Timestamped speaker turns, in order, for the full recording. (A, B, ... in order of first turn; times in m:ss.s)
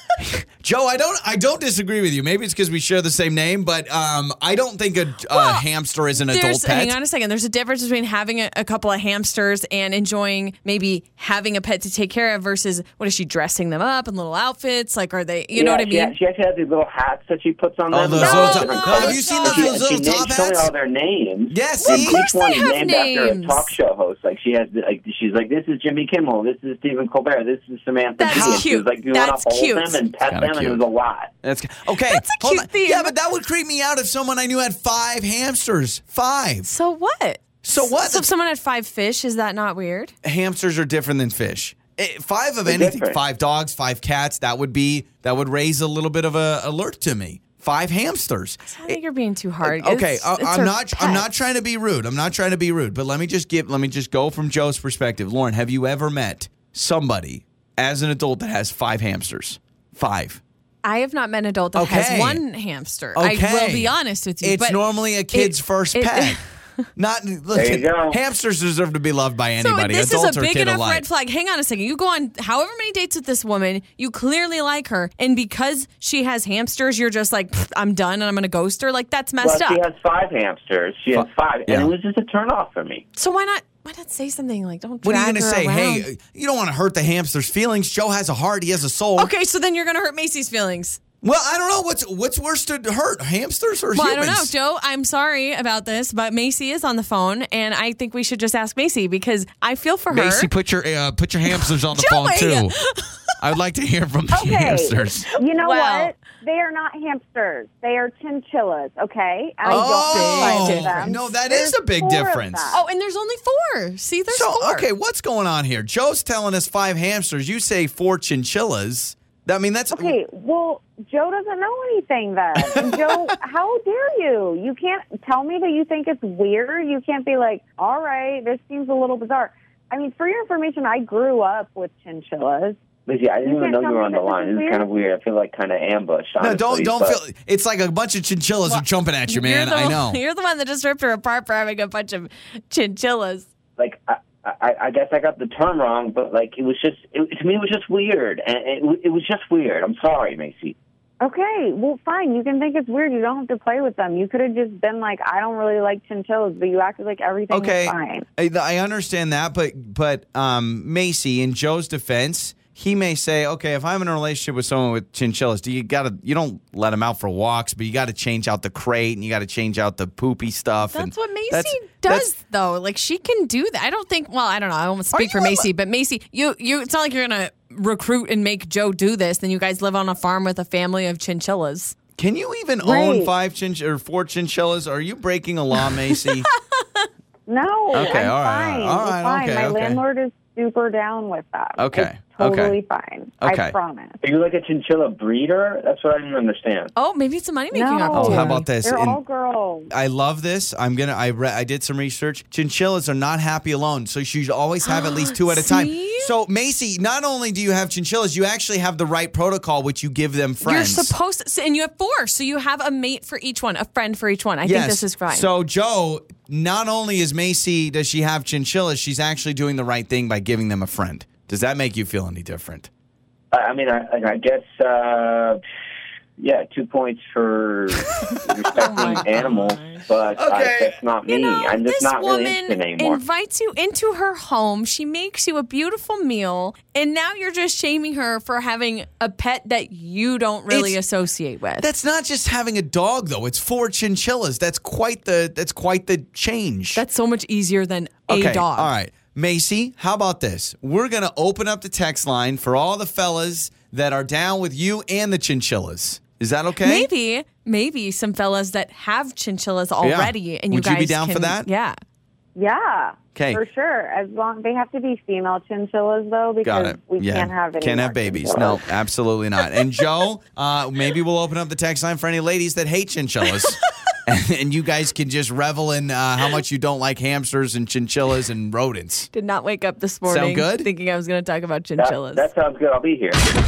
0:00.2-0:07.0 A
0:05.3-0:16.2 B
0:15.5-0:31.3 C
0:17.9-0:20.7 A
0:18.2-0:19.8 B
0:18.5-0:19.4 D
0:21.5-0:22.2 A
0:21.8-0:23.7 B
0:28.2-0:30.0 B
0:28.3-0:28.6 A
0:30.2-0:30.8 A
0:31.4-0:36.7 A
0:32.1-0:33.1 B
0:36.6-0:40.1 B
0:37.6-0:38.3 A
0:40.2-0:49.0 A
0:42.7-0:43.2 C
0:48.7-0:51.3 B
0:49.6-1:00.4 A
1:00.8-1:06.8 B
1:01.8-1:02.4 A
1:03.2-1:06.4 A
1:07.0-1:11.0 A
1:07.5-1:08.2 C
1:09.6-1:19.8 B
1:19.4-1:23.0 C
1:21.2-1:21.9 A
1:23.2-1:26.1 B
1:25.0-1:29.3 A
1:29.2-1:31.0 B
1:31.2-1:34.5 A
1:33.9-1:40.5 B
1:40.1-1:42.7 A
1:41.5-1:43.3 B
1:43.4-1:45.3 A
1:44.3-1:52.8 D
1:45.5-1:46.1 B
1:49.6-1:51.2 B
1:49.7-1:52.8 A
1:52.7-1:54.9 B
1:54.3-2:00.2 A
1:59.9-2:12.8 D
2:02.6-2:03.1 A
2:13.1-2:17.2 C
2:13.4-2:14.8 D
2:16.4-2:20.2 A
2:18.7-2:23.5 B
2:23.8-2:30.8 C
2:31.2-2:38.3 D
2:37.5-2:52.3 A
2:50.9-3:02.0 B
2:55.1-2:55.7 A
3:02.2-3:06.5 A
3:02.8-3:03.3 D
3:05.8-3:07.0 B
3:07.5-3:14.2 D
3:07.9-3:10.0 A
3:11.8-3:12.8 A
3:13.4-3:13.7 A
3:14.2-3:16.9 C
3:17.0-3:18.6 B
3:17.7-3:19.9 D
3:18.1-3:19.2 A
3:19.9-3:31.1 A
3:24.8-3:26.3 B
3:30.6-3:35.5 B
3:34.6-3:42.9 A
3:43.5-3:45.6 C
3:46.4-3:53.2 C
3:48.8-3:50.1 B
3:48.8-3:49.2 A
3:50.4-3:51.0 A
3:51.3-4:01.9 B
4:00.7-4:01.0 A
4:01.8-4:07.0 A
4:07.0-4:08.9 B
4:08.3-4:17.1 A
4:16.8-4:22.0 B
4:20.0-4:21.7 A
4:22.6-4:28.8 D
4:23.4-4:23.6 A
4:26.6-4:39.3 A
4:33.4-4:33.7 B
4:39.3-4:42.5 B
4:40.3-4:40.9 A
4:42.0-4:43.4 C